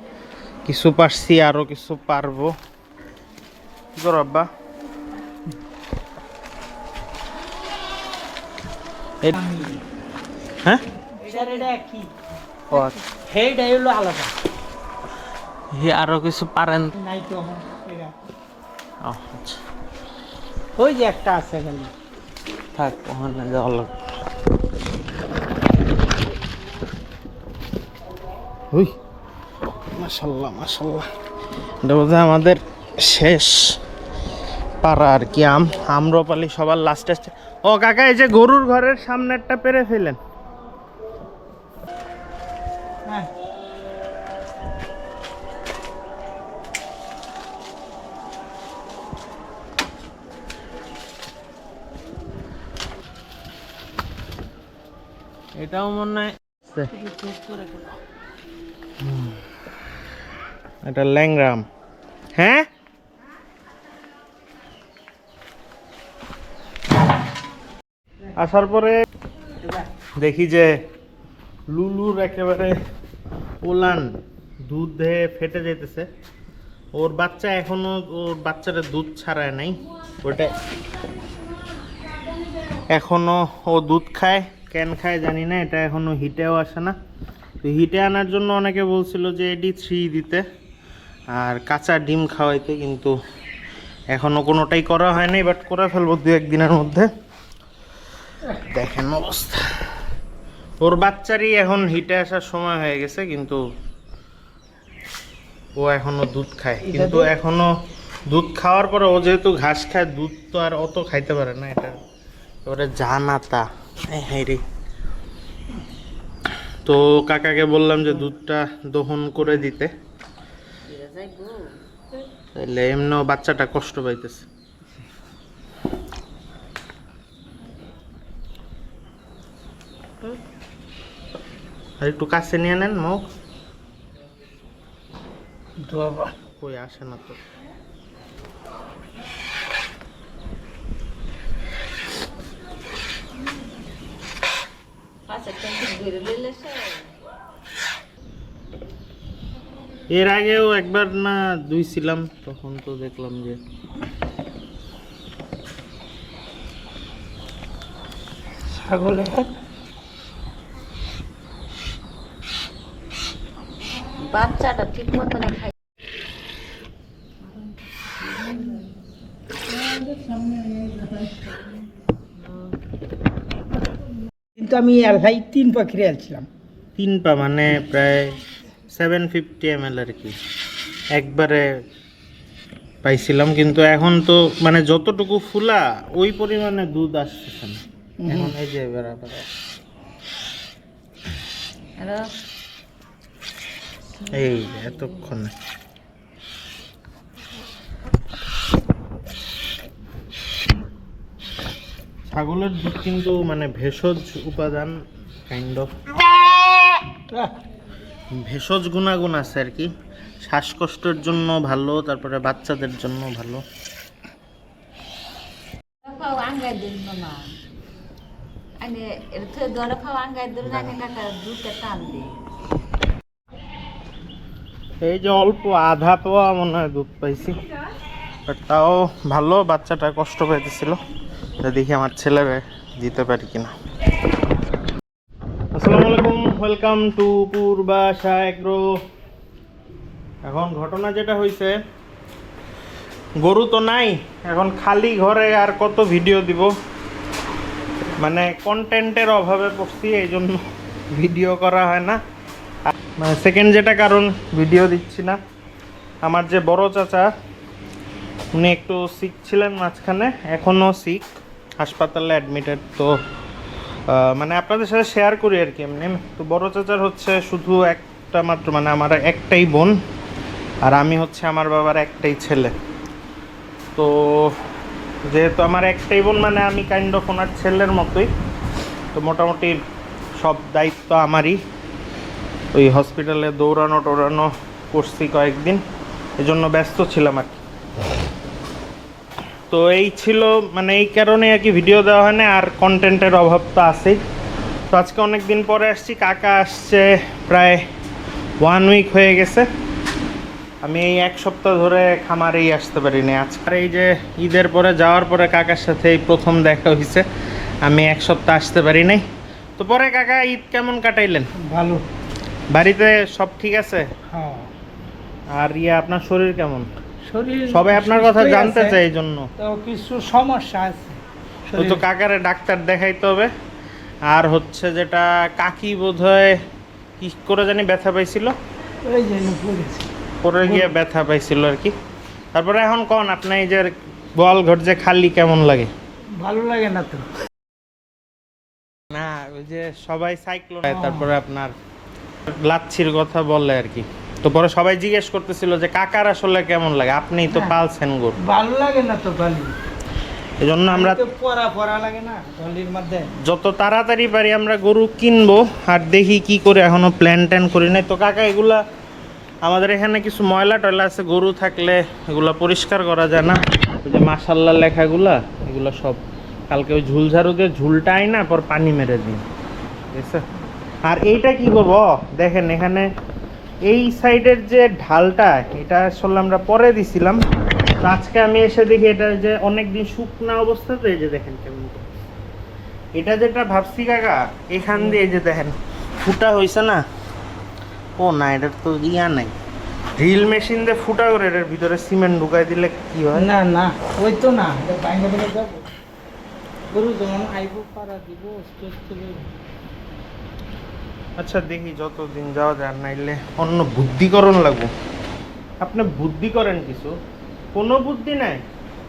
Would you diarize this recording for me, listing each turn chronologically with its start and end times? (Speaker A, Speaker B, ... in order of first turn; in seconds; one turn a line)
Speaker A: 0.7-2.5
Speaker A: 4.0-4.5
Speaker B: 9.3-9.8
Speaker B: 11.2-12.1
Speaker A: 12.7-12.9
Speaker B: 12.7-14.3
Speaker A: 15.7-16.9
Speaker B: 17.0-18.1
Speaker A: 19.0-19.6
Speaker B: 20.8-21.9
Speaker A: 22.8-23.9
Speaker A: 29.9-31.1
Speaker A: 31.8-33.8
Speaker A: 34.8-40.2
Speaker A: 55.6-56.9
Speaker B: 56.9-58.0
Speaker A: 59.0-59.3
Speaker A: 60.8-61.6
Speaker A: 62.4-62.6
Speaker A: 68.3-68.9
Speaker A: 70.2-70.7
Speaker A: 71.7-72.7
Speaker A: 73.6-74.1
Speaker A: 74.7-76.0
Speaker A: 76.9-80.5
Speaker A: 82.9-86.9
Speaker A: 87.6-90.4
Speaker A: 91.3-93.1
Speaker A: 94.1-97.1
Speaker A: 98.5-99.6
Speaker A: 100.8-103.6
Speaker A: 105.8-107.7
Speaker B: 106.8-107.3
Speaker A: 108.3-112.0
Speaker A: 112.7-114.6
Speaker A: 116.8-119.9
Speaker C: 120.9-121.8
Speaker A: 122.5-124.5
Speaker A: 132.0-133.3
Speaker B: 135.8-136.3
Speaker A: 136.5-137.4
Speaker C: 145.3-147.1
Speaker A: 150.1-153.6
Speaker B: 158.7-159.5
Speaker C: 164.2-165.7
Speaker C: 168.4-168.7
Speaker B: 169.8-171.6
Speaker B: 174.6-176.5
Speaker A: 176.9-178.4
Speaker A: 178.9-180.3
Speaker A: 181.1-181.7
Speaker A: 183.0-189.5
Speaker B: 188.2-188.5
Speaker C: 192.0-192.3
Speaker A: 194.3-195.5
Speaker A: 202.3-204.9
Speaker A: 205.5-205.9
Speaker A: 208.3-209.9
Speaker A: 210.4-213.6
Speaker C: 216.0-217.5
Speaker C: 218.8-222.3
Speaker A: 220.6-220.9
Speaker A: 225.0-227.6
Speaker A: 228.5-231.0
Speaker A: 231.6-233.7
Speaker A: 235.7-238.8
Speaker A: 240.4-241.7
Speaker A: 243.4-246.7
Speaker A: 248.2-250.6
Speaker A: 251.1-252.2
Speaker A: 252.8-255.4
Speaker A: 256.2-257.3
Speaker A: 258.5-261.3
Speaker A: 261.8-263.1
Speaker A: 264.1-269.9
Speaker A: 270.8-272.7
Speaker A: 273.9-274.5
Speaker A: 275.3-278.3
Speaker A: 279.1-279.8
Speaker A: 280.4-281.6
Speaker A: 282.7-285.8
Speaker A: 286.4-287.6
Speaker A: 289.7-294.2
Speaker A: 294.9-297.8
Speaker A: 298.6-299.6
Speaker A: 300.8-307.2
Speaker A: 307.8-309.2
Speaker A: 309.8-311.5
Speaker B: 311.6-312.0
Speaker A: 312.7-314.1
Speaker B: 314.3-314.7
Speaker A: 315.5-316.9
Speaker B: 317.3-319.0
Speaker A: 317.7-319.5
Speaker B: 319.6-322.0
Speaker A: 321.8-323.5
Speaker A: 324.3-326.6
Speaker A: 327.2-328.5
Speaker B: 329.0-330.1
Speaker A: 330.4-331.9
Speaker B: 330.6-330.9
Speaker A: 332.5-335.9
Speaker B: 336.4-337.2
Speaker A: 339.1-341.7
Speaker B: 340.9-341.3
Speaker A: 342.5-348.4
Speaker B: 347.5-347.7
Speaker B: 348.4-349.7
Speaker A: 350.6-351.2
Speaker B: 350.9-353.3
Speaker A: 353.4-358.8
Speaker A: 359.6-369.4
Speaker A: 370.1-370.4
Speaker A: 371.0-373.1
Speaker A: 373.9-377.4
Speaker A: 378.0-382.1
Speaker A: 383.1-387.0
Speaker A: 388.2-389.5
Speaker A: 390.2-393.5
Speaker B: 393.3-395.9
Speaker B: 396.9-399.5
Speaker A: 401.4-404.9
Speaker A: 405.8-407.1
Speaker A: 407.7-408.6